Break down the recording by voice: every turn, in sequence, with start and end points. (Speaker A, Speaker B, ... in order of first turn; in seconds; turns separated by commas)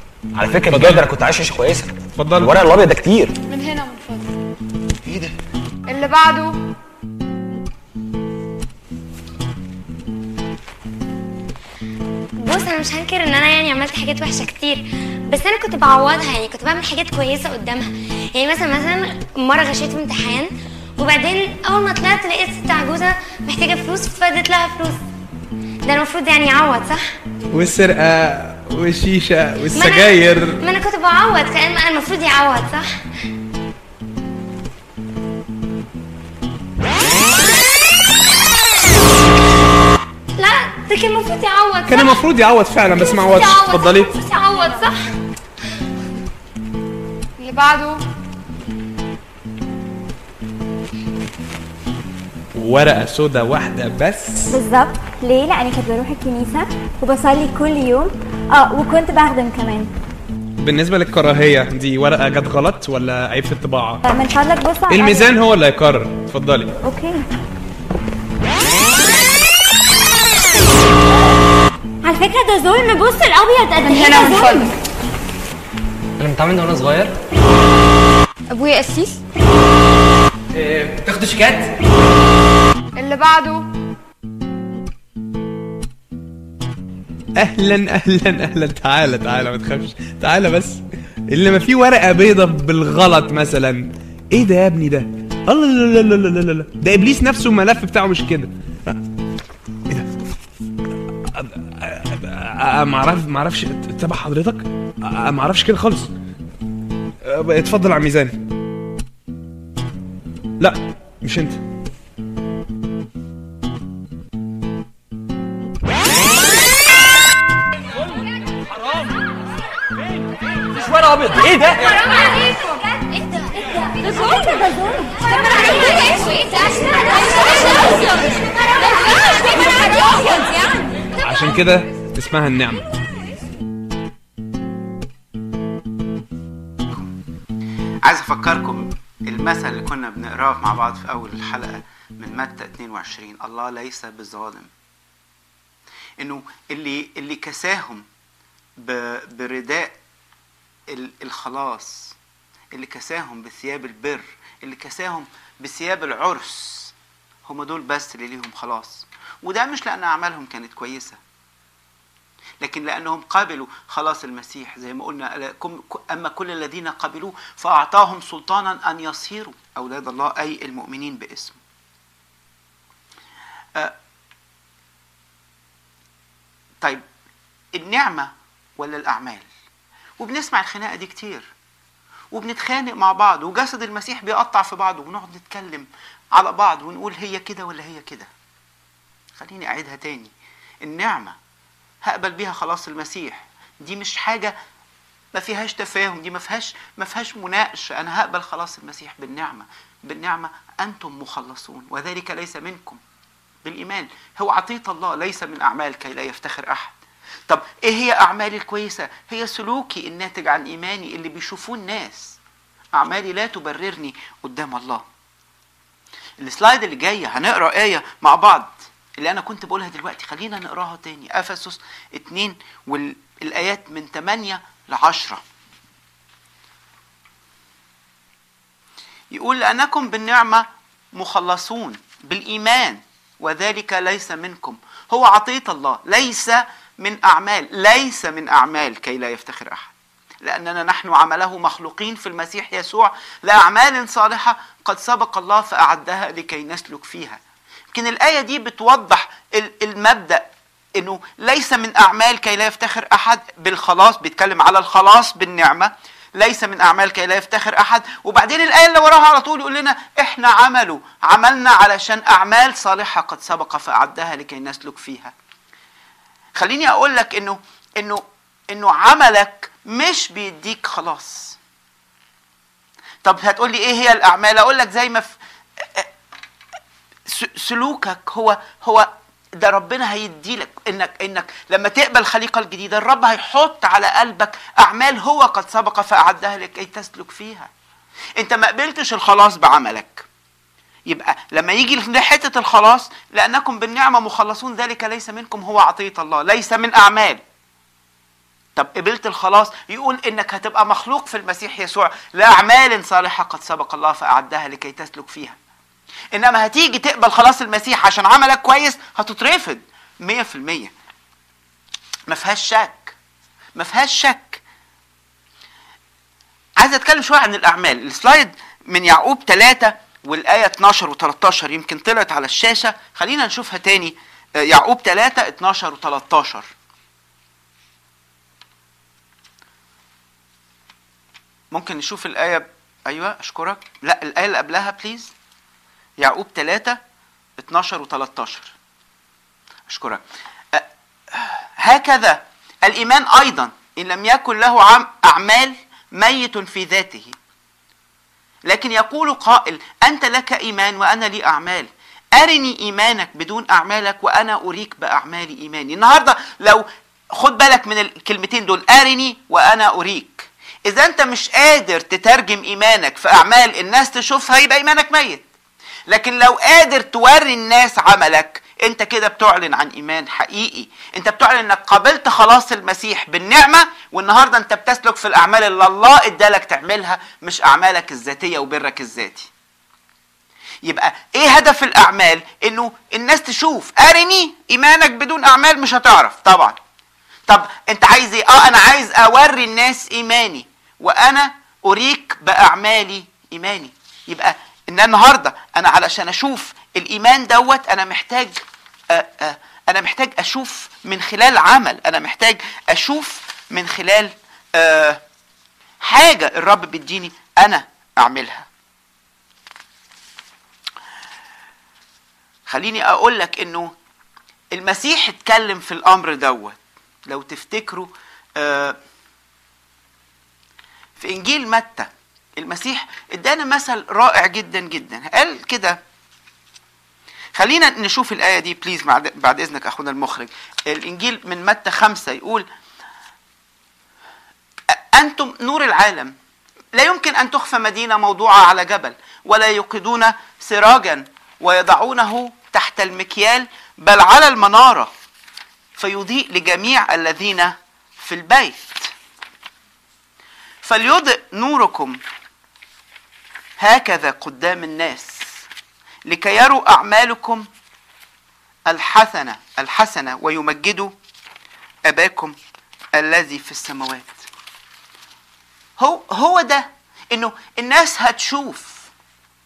Speaker A: 0.4-3.4, Speaker B: 0.7-1.1, Speaker B: 2.2-2.6, Speaker C: 3.5-4.3, Speaker C: 5.9-6.6, Speaker D: 12.4-25.0, Speaker D: 25.9-27.1, Speaker B: 27.5-30.6, Speaker D: 29.7-33.0, Speaker D: 40.4-42.2, Speaker B: 41.9-44.1, Speaker D: 43.0-45.1, Speaker C: 47.4-48.0, Speaker B: 52.5-54.6, Speaker E: 54.5-59.9, Speaker B: 60.6-64.0, Speaker E: 64.0-65.4, Speaker B: 64.9-66.8, Speaker E: 66.8-67.2, Speaker E: 72.0-74.7, Speaker C: 73.8-74.7, Speaker F: 76.2-77.2, Speaker C: 78.5-79.2, Speaker F: 80.5-81.8, Speaker C: 83.0-83.6, Speaker B: 87.4-99.0, Speaker B: 101.3-106.1, Speaker B: 107.2-108.4, Speaker B: 110.6-111.6, Speaker A: 120.9-121.6, Speaker D: 121.8-123.1, Speaker E: 123.8-126.4, Speaker D: 126.7-127.7, Speaker B: 131.2-132.9, Speaker G: 138.0-144.7, Speaker G: 146.2-148.1, Speaker G: 148.8-149.9, Speaker G: 150.9-152.2, Speaker G: 152.7-156.9, Speaker G: 157.5-161.2, Speaker G: 162.6-171.6, Speaker G: 177.8-179.5, Speaker G: 180.2-181.5, Speaker G: 182.3-188.3, Speaker G: 189.4-191.4, Speaker G: 192.0-194.6, Speaker G: 195.3-203.0, Speaker G: 203.6-206.9, Speaker G: 207.5-212.4, Speaker G: 212.9-215.0, Speaker G: 216.4-225.4, Speaker G: 229.3-247.4, Speaker G: 247.9-250.4, Speaker G: 251.0-265.3, Speaker G: 266.6-271.6, Speaker G: 273.2-276.1, Speaker G: 277.3-287.7, Speaker G: 288.4-290.3, Speaker G: 291.1-297.4, Speaker G: 298.8-305.6, Speaker G: 306.3-310.9, Speaker G: 312.3-313.2, Speaker G: 313.8-314.6, Speaker G: 316.8-326.7, Speaker G: 331.7-335.3, Speaker G: 336.2-337.0, Speaker G: 337.6-338.7, Speaker G: 339.9-347.3, Speaker G: 348.7-365.5, Speaker G: 366.1-379.5, Speaker G: 380.8-386.8, Speaker G: 387.5-405.2, Speaker G: 406.0-408.7, Speaker G: 412.7-413.9, Speaker G: 414.7-419.0, Speaker G: 421.2-426.0, Speaker G: 427.6-432.7, Speaker G: 435.1-436.4, Speaker G: 436.9-445.1, Speaker G: 446.0-449.1, Speaker G: 450.8-452.2, Speaker G: 453.8-455.5, Speaker G: 456.3-457.7, Speaker G: 458.9-461.1, Speaker G: 462.1-462.6, Speaker G: 463.1-464.4, Speaker G: 466.0-469.1